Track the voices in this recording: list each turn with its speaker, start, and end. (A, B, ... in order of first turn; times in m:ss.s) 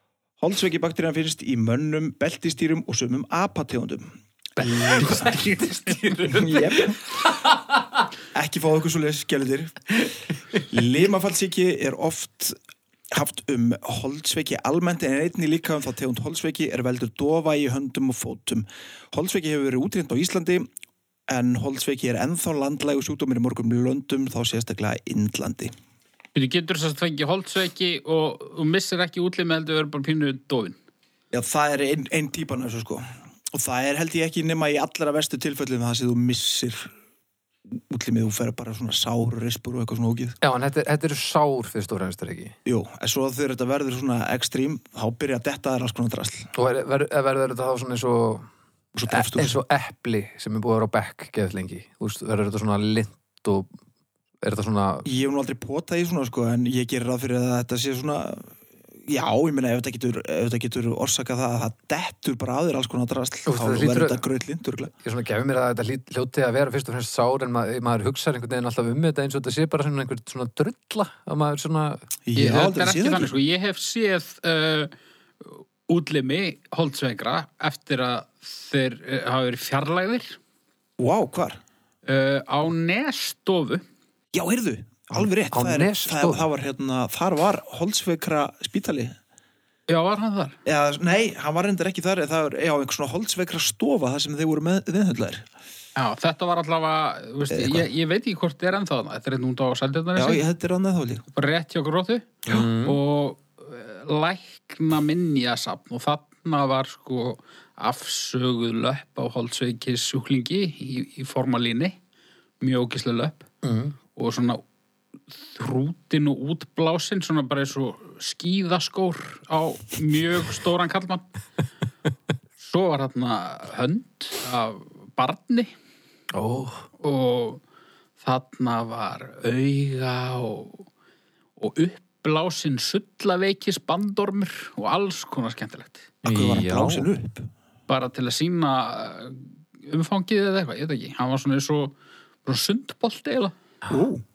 0:00.4-0:05.3 A
0:04.6-0:06.1 B
0:04.8-0:08.0 C
0:06.3-0:07.0 A
0:08.3-0:10.0 A
0:10.7-0:12.6 A
0:13.1-0:20.7 A
0:21.3-0:25.7 A
0:26.4-0:30.8 B
0:31.3-0:36.9 A
0:37.7-0:40.4 A
0:40.4-0:42.6 C
0:42.6-0:46.5 A
0:46.6-0:48.5 C
0:49.0-0:49.6 A
0:49.1-0:53.7 C
0:54.4-0:55.1 C
0:55.0-1:04.9 A
1:03.5-1:04.2 C
1:05.0-1:12.0 C
1:12.3-1:13.3 A
1:12.4-1:20.4 B
1:21.0-1:21.6 A
1:22.1-1:23.8 B
1:24.3-1:29.2 A
1:25.5-1:26.5 C
1:29.9-1:30.6 B
1:30.6-1:35.5 A
1:36.0-1:40.4 B
1:37.5-1:37.9 A
1:40.2-1:41.2 A
1:41.3-1:52.0 B
1:42.5-1:43.0 C
1:52.6-1:53.5 B
1:53.6-1:54.0 C
1:54.2-1:54.6 B
1:55.4-2:01.3 B
2:02.6-2:05.7 B
2:06.3-2:06.9 C
2:07.0-2:07.6 B
2:08.2-2:10.9 B
2:11.6-2:16.1 B
2:16.2-2:17.1 C
2:16.2-2:17.5 A
2:17.9-2:23.6 B
2:23.9-2:24.2 A